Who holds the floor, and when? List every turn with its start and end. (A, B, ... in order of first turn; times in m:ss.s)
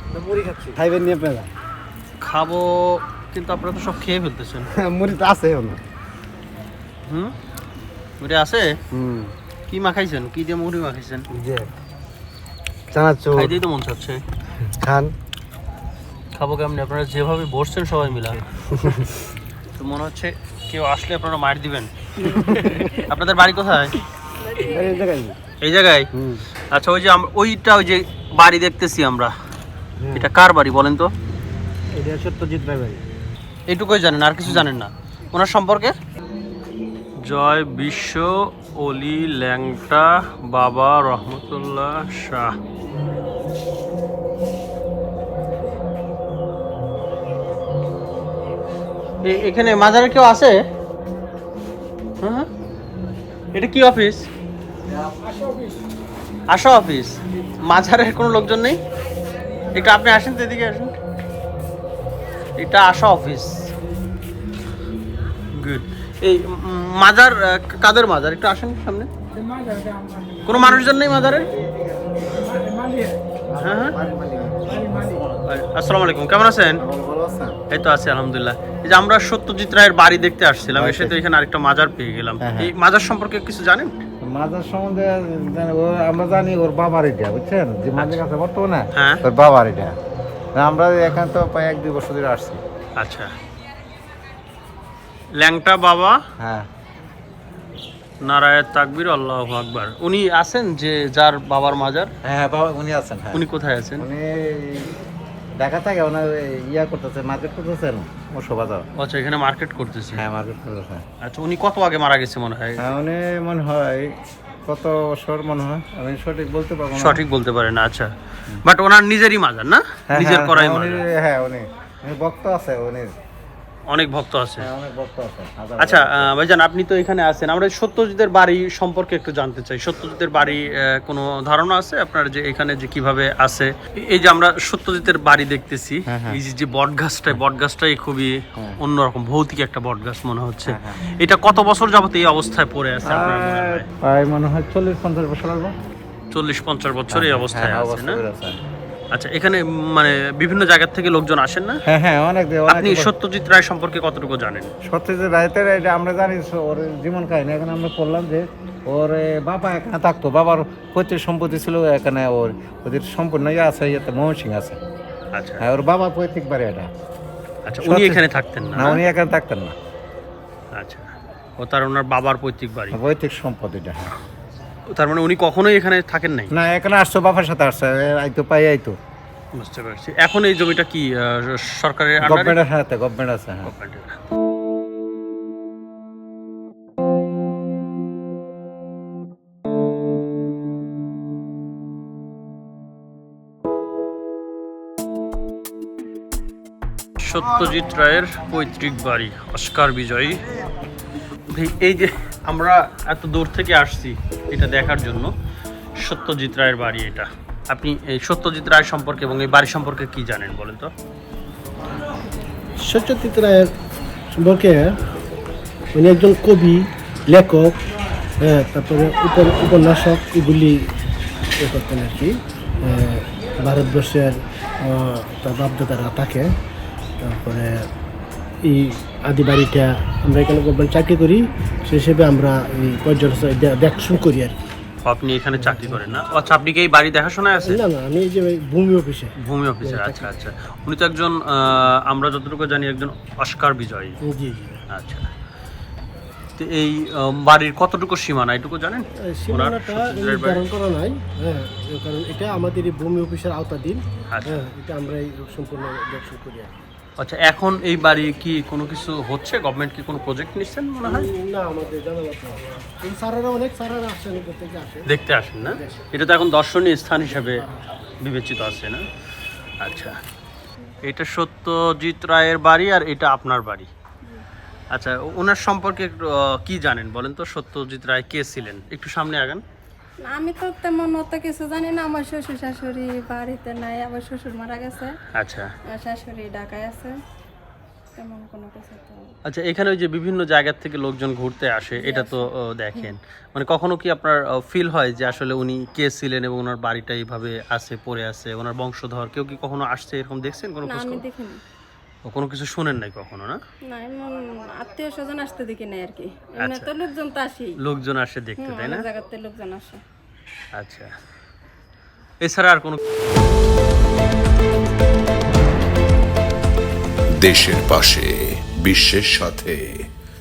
0:00.7-0:01.5 A
0:02.2-0:04.7 B
0:04.8-0:05.8 A
0:07.1-0:07.3 B
0:08.2-0:08.8 B
0:09.7-0:11.2 B
0:13.3-0:14.2 B
0:14.8-0:15.1 A
0:16.3-0:19.1 B
0:19.8-0:22.1 B
0:22.8-0:24.0 B
0:24.5-0:25.0 C
0:24.8-0:25.3 A
0:25.6-0:26.1 B
0:26.6-0:29.3 B
0:30.1-0:31.1 B
0:32.0-0:32.7 D
0:33.7-0:36.0 B
0:37.2-0:42.6 B
0:49.2-0:50.6 B
0:52.2-0:52.5 B
0:53.5-0:54.2 B
0:54.9-0:55.3 A
0:56.5-0:58.8 B
0:59.7-1:00.9 B
1:02.6-1:03.7 B
1:05.5-1:09.1 B
1:10.4-1:11.5 B
1:11.7-1:12.2 A
1:13.5-1:15.1 A
1:13.6-1:14.0 B
1:15.4-1:16.8 B
1:16.8-1:17.6 A
1:17.7-1:23.9 B
1:20.8-1:21.2 A
1:22.4-1:22.7 A
1:24.2-1:30.0 A
1:28.9-1:29.2 B
1:30.6-1:32.6 A
1:33.0-1:33.3 B
1:35.4-1:36.2 B
1:36.4-1:36.7 A
1:38.2-1:42.1 B
1:42.2-1:43.4 A
1:43.3-1:44.1 B
1:44.0-1:44.9 A
1:45.6-1:48.8 A
1:49.0-1:50.2 B
1:50.2-1:51.0 A
1:51.2-1:52.9 B
1:52.8-1:54.1 A
1:54.7-1:57.2 A
1:57.0-1:58.1 B
1:58.6-2:01.1 B
2:00.1-2:03.1 A
2:03.9-2:04.7 B
2:04.6-2:06.3 A
2:05.8-2:23.9 B
2:16.1-2:16.4 A
2:20.7-2:21.0 A
2:23.0-2:25.7 A
2:26.3-2:28.2 B
2:27.1-2:28.6 A
2:29.1-2:31.8 B
2:31.9-2:33.1 A
2:32.7-2:34.7 B
2:34.9-2:44.8 A
2:45.3-2:45.7 B
2:45.6-2:46.9 A
2:47.7-2:49.0 B
2:47.8-2:49.7 A
2:50.7-2:53.0 B
2:52.9-2:54.2 A
2:54.9-2:56.5 B
2:56.5-2:59.0 A
2:59.6-3:02.6 B
3:02.2-3:03.7 A
3:03.6-3:04.2 B
3:17.2-3:20.4 B
3:21.5-3:25.3 B
3:26.0-3:30.9 B
3:32.8-3:33.7 D
3:34.3-3:35.0 D
3:35.9-3:37.8 D
3:38.4-3:40.9 D
3:41.6-3:46.5 D
3:47.2-3:47.9 D
3:48.6-3:54.6 D
3:55.0-3:57.8 B
3:55.6-3:56.0 D
3:57.7-4:00.3 D
3:59.4-4:04.2 B
4:04.2-4:04.8 D
4:04.9-4:05.3 B
4:06.6-4:10.7 B
4:09.3-4:16.8 D
4:14.3-4:14.6 B
4:17.2-4:21.3 B
4:21.0-4:25.1 D
4:25.1-4:27.6 B
4:25.7-4:26.0 D
4:28.2-4:29.0 B
4:29.8-4:30.2 B
4:31.0-4:33.9 B
4:34.9-4:39.6 B
4:40.3-4:45.2 C
4:45.3-4:45.7 B
4:45.9-4:47.2 C
4:48.2-4:49.2 C
4:49.4-5:01.2 B
4:52.0-4:53.1 C
5:00.9-5:01.6 C
5:02.2-5:03.6 B
5:03.9-5:07.8 C
5:06.6-5:06.9 B
5:07.8-5:09.1 B
5:08.6-5:10.0 C
5:10.8-5:11.1 B
5:12.4-5:13.0 B
5:17.4-5:20.0 E